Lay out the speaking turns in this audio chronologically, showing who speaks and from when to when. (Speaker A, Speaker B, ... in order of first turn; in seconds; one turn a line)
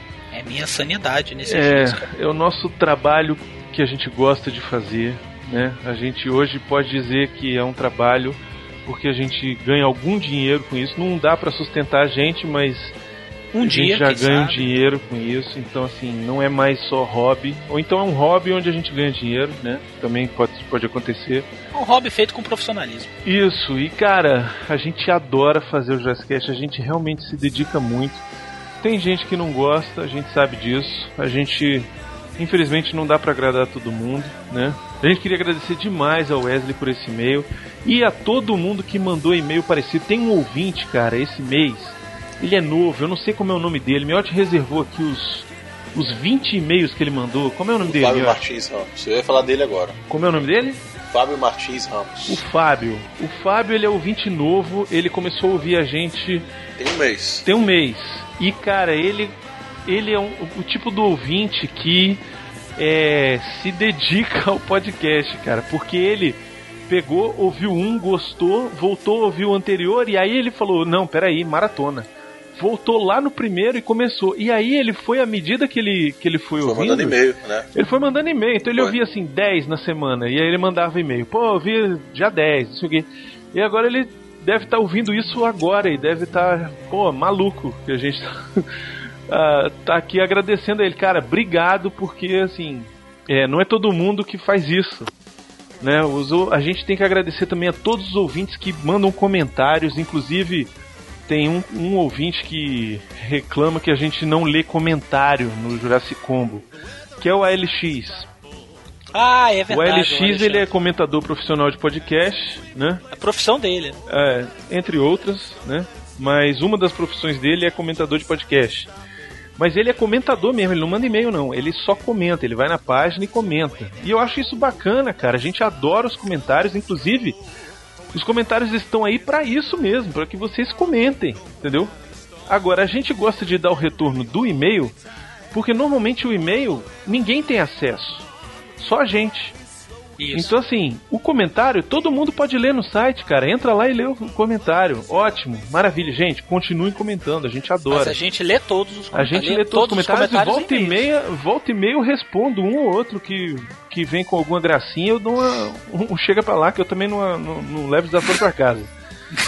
Speaker A: 0.3-2.1
Speaker B: 1.4-12.9
Speaker A: 13.5-14.7
Speaker B: 13.6-21.5
Speaker A: 21.7-23.1
Speaker B: 23.2-28.2
Speaker B: 28.8-48.4
Speaker C: 47.9-50.0
Speaker B: 50.1-50.8
Speaker C: 51.1-52.4
Speaker B: 52.3-56.5
Speaker C: 56.8-57.4
Speaker B: 57.4-62.2
Speaker B: 62.8-77.2
Speaker C: 76.6-77.7
Speaker B: 77.7-88.7
Speaker B: 89.3-95.1
Speaker B: 95.8-100.7
Speaker B: 101.3-106.7
Speaker B: 107.2-108.3
Speaker A: 109.1-110.7
Speaker B: 109.7-113.0
Speaker A: 113.1-114.0
Speaker B: 114.1-118.9
Speaker B: 119.6-127.4
Speaker B: 128.1-131.9
Speaker B: 132.5-134.9
Speaker B: 135.5-138.3
Speaker B: 138.8-139.6
Speaker A: 140.2-140.5
Speaker B: 140.3-148.2
Speaker A: 147.9-151.1
Speaker B: 149.1-158.9